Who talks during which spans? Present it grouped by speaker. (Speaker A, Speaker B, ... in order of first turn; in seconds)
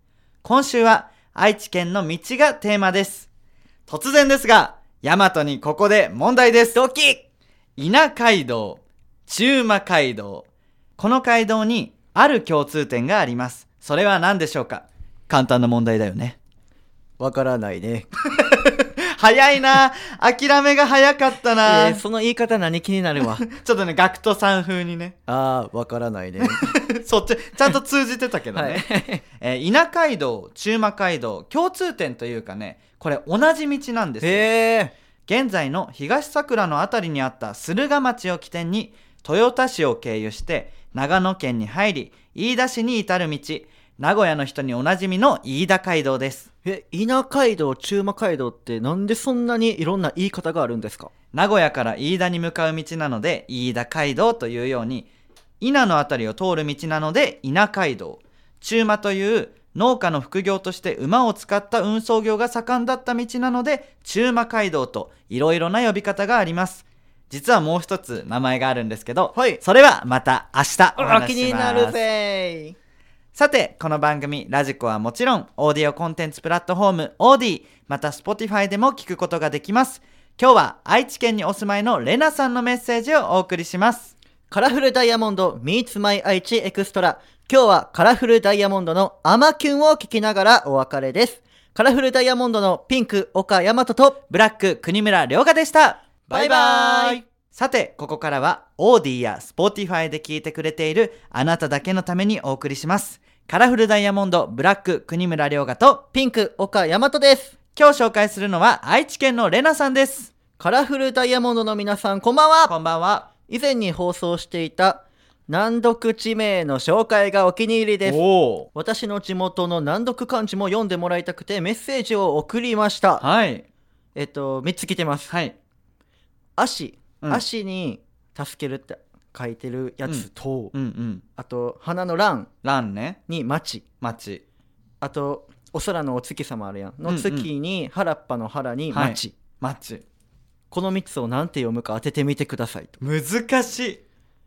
Speaker A: 0.4-3.3, 3.9-6.8, 7.8-16.4, 18.4-22.0, 23.4-25.2, 26.4-28.9, 29.4-34.5, 35.3-46.5, 51.3-55.1, 55.6-72.0, 73.3-84.1, 94.3-106.0, 107.7-110.3, 112.7-113.3, 118.0-118.7, 123.2-123.7, 125.3-125.5, 130.0-131.2, 132.6-133.2, 134.0-134.4, 137.0-137.5, 138.9-140.0, 143.0-144.0
Speaker B: 6.7-7.2, 17.2-18.1, 21.6-23.4, 25.3-26.8, 28.5-29.2, 34.2-34.9, 46.6-51.1, 69.3-69.6, 71.0-72.8, 84.5-94.2, 96.3-97.2, 106.1-107.5, 110.6-112.7, 113.5-123.2, 124.1-125.3, 126.6-130.7, 131.3-132.5, 133.3-133.8, 135.0-139.3, 140.7-143.0